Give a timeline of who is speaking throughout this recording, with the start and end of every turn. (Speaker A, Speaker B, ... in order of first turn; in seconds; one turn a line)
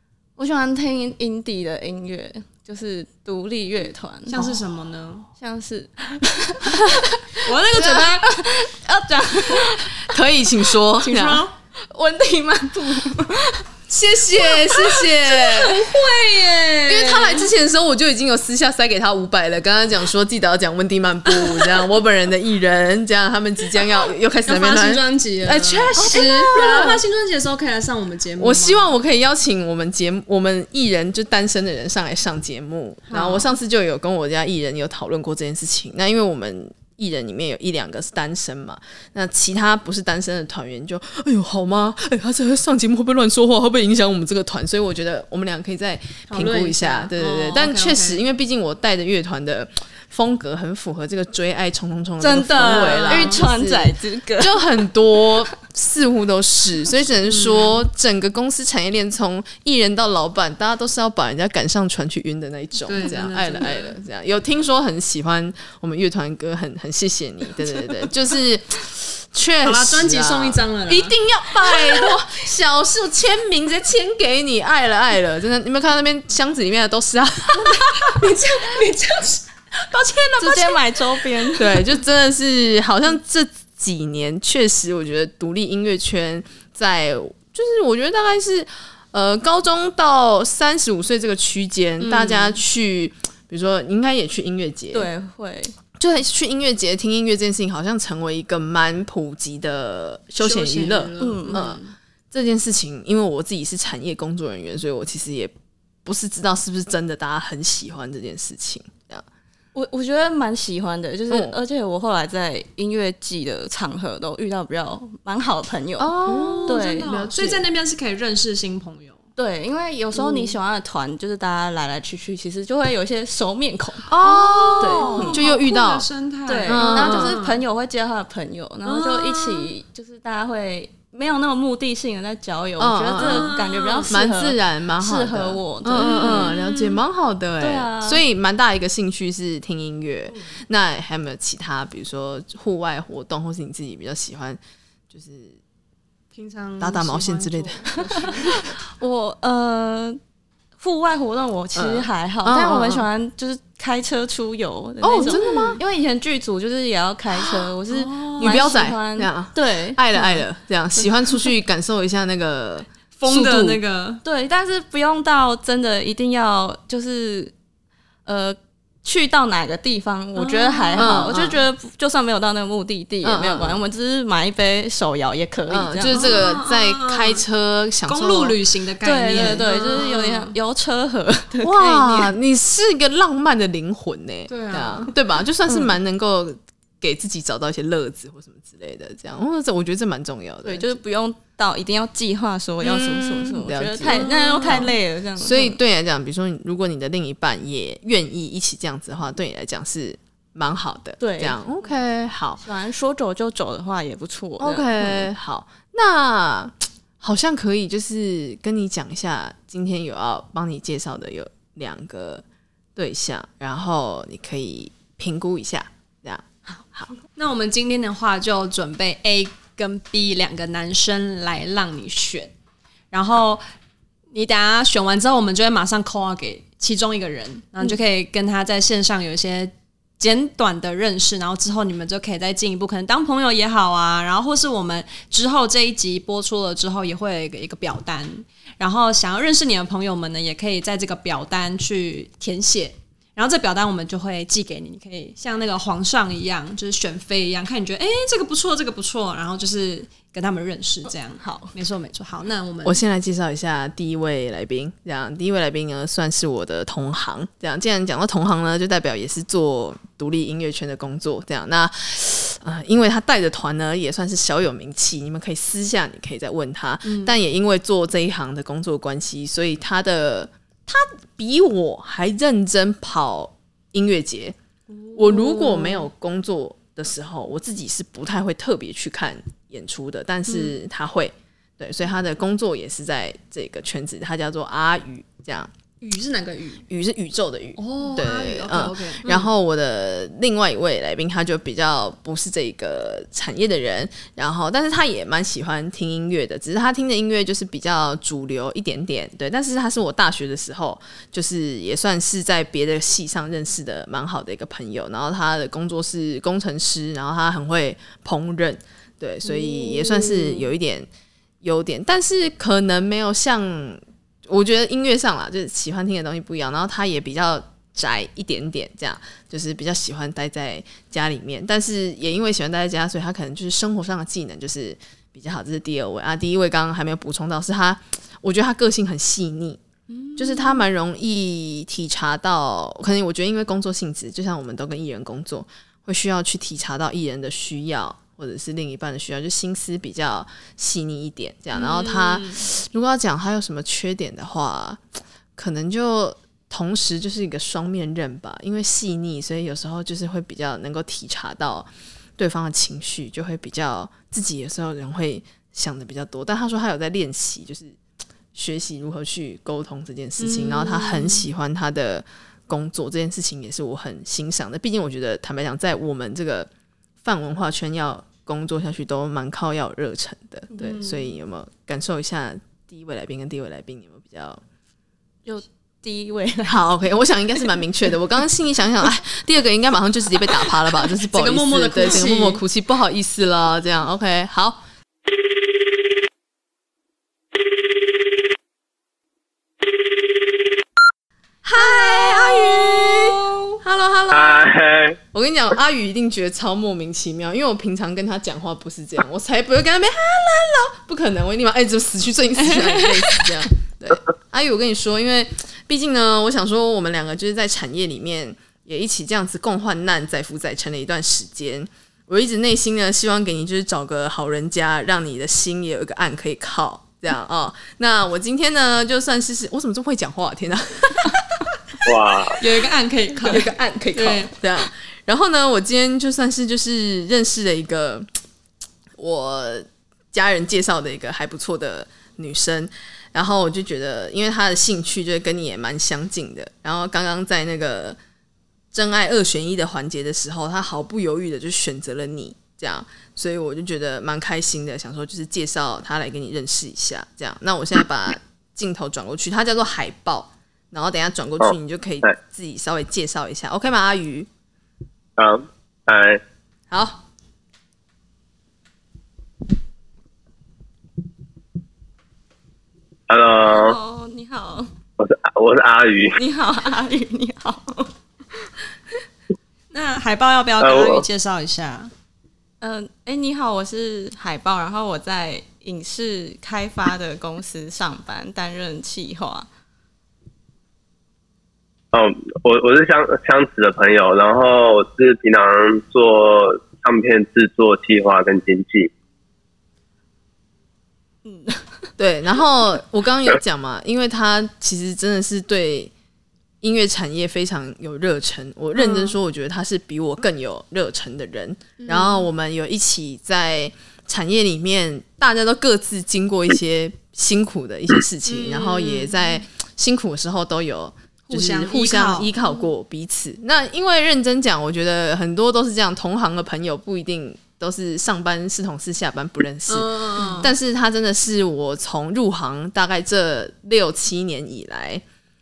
Speaker A: 0.4-4.4
Speaker B: 4.3-5.3
Speaker A: 5.4-10.0
Speaker B: 7.4-8.3
Speaker C: 7.8-8.1
Speaker C: 10.0-11.4
Speaker B: 11.0-11.6
Speaker A: 11.8-13.6
Speaker C: 13.9-15.9
Speaker B: 15.4-17.5
Speaker C: 16.9-27.0
Speaker B: 21.3-21.9
Speaker B: 24.5-28.9
Speaker C: 28.4-78.3
Speaker B: 33.1-33.5
Speaker B: 46.3-48.2
Speaker B: 52.2-53.4
Speaker A: 52.3-54.6
Speaker B: 57.3-57.8
Speaker B: 62.9-63.9
Speaker B: 69.6-72.1
Speaker B: 77.5-79.5
Speaker C: 79.8-80.8
Speaker A: 80.4-81.8
Speaker C: 81.5-95.1
Speaker B: 92.0-92.6
Speaker A: 94.9-95.8
Speaker C: 96.0-101.8
Speaker B: 100.4-101.9
Speaker A: 101.2-101.7
Speaker C: 102.3-105.5
Speaker C: 106.0-109.2
Speaker A: 109.8-117.1
Speaker C: 111.3-111.6
Speaker C: 116.0-117.7
Speaker B: 116.2-119.2
Speaker A: 119.4-124.1
Speaker C: 120.2-120.5
Speaker C: 124.1-126.1
Speaker B: 124.1-127.6
Speaker A: 124.8-125.4
Speaker A: 126.5-136.6
Speaker C: 126.7-127.4
Speaker B: 128.9-129.7
Speaker C: 132.8-133.6
Speaker B: 133.2-134.1
Speaker C: 134.1-144.6
Speaker B: 136.0-137.0
Speaker A: 137.6-138.2
Speaker C: 145.1-145.6
Speaker B: 146.3-148.7
Speaker C: 146.8-147.8
Speaker A: 149.0-150.2
Speaker A: 150.8-160.0
Speaker C: 151.8-153.1
Speaker C: 155.0-155.8
Speaker B: 155.2-155.8
Speaker B: 157.9-158.7
Speaker C: 158.4-163.8
Speaker B: 163.2-164.2
Speaker A: 164.2-167.5
Speaker A: 168.3-176.3
Speaker B: 170.3-171.4
Speaker C: 171.0-171.6
Speaker C: 173.2-173.8
Speaker C: 175.7-178.6
Speaker B: 176.1-177.4
Speaker B: 178.1-180.6
Speaker A: 179.0-182.3
Speaker C: 179.4-179.6
Speaker C: 181.6-191.0
Speaker B: 184.5-185.1
Speaker A: 190.6-195.8
Speaker C: 192.8-194.8
Speaker B: 194.0-194.9
Speaker C: 195.4-202.6
Speaker A: 201.2-201.6
Speaker A: 202.6-205.3
Speaker C: 204.6-212.4
Speaker C: 213.0-217.1
Speaker B: 217.3-222.5
Speaker B: 223.1-223.6
Speaker B: 224.3-253.0
Speaker A: 251.3-251.7
Speaker C: 252.8-274.6
Speaker B: 267.0-267.4
Speaker B: 274.9-276.1
Speaker C: 275.2-285.7
Speaker B: 280.5-280.8
Speaker B: 286.0-286.9
Speaker C: 286.9-311.1
Speaker B: 287.8-289.5
Speaker B: 309.4-310.7
Speaker C: 311.6-329.8
Speaker B: 330.1-330.8
Speaker C: 330.4-345.0
Speaker B: 341.7-342.6
Speaker C: 345.6-358.0
Speaker C: 358.6-366.7
Speaker B: 360.4-361.5
Speaker C: 367.2-374.6
Speaker B: 370.8-371.3
Speaker A: 375.5-376.9
Speaker C: 376.7-384.8
Speaker B: 381.2-382.6
Speaker C: 391.7-394.7
Speaker B: 391.7-393.8
Speaker D: 394.3-395.2
Speaker C: 395.3-421.7
Speaker B: 402.7-403.1
Speaker D: 422.1-422.6
Speaker B: 422.6-424.6
Speaker C: 423.4-428.3
Speaker C: 429.2-438.2
Speaker C: 438.9-454.5
Speaker D: 451.6-452.3
Speaker D: 455.4-456.4
Speaker C: 456.9-457.2
Speaker D: 463.3-464.0
Speaker A: 463.7-464.9
Speaker D: 465.2-466.4
Speaker A: 466.4-468.7
Speaker B: 469.9-472.1
Speaker D: 470.8-471.2
Speaker A: 472.8-479.7
Speaker D: 482.1-489.1
Speaker A: 491.4-492.1
Speaker C: 492.2-496.1
Speaker C: 496.8-525.2
Speaker B: 499.0-499.4
Speaker B: 502.0-502.5
Speaker B: 508.5-509.6
Speaker B: 511.5-512.5
Speaker B: 519.9-520.7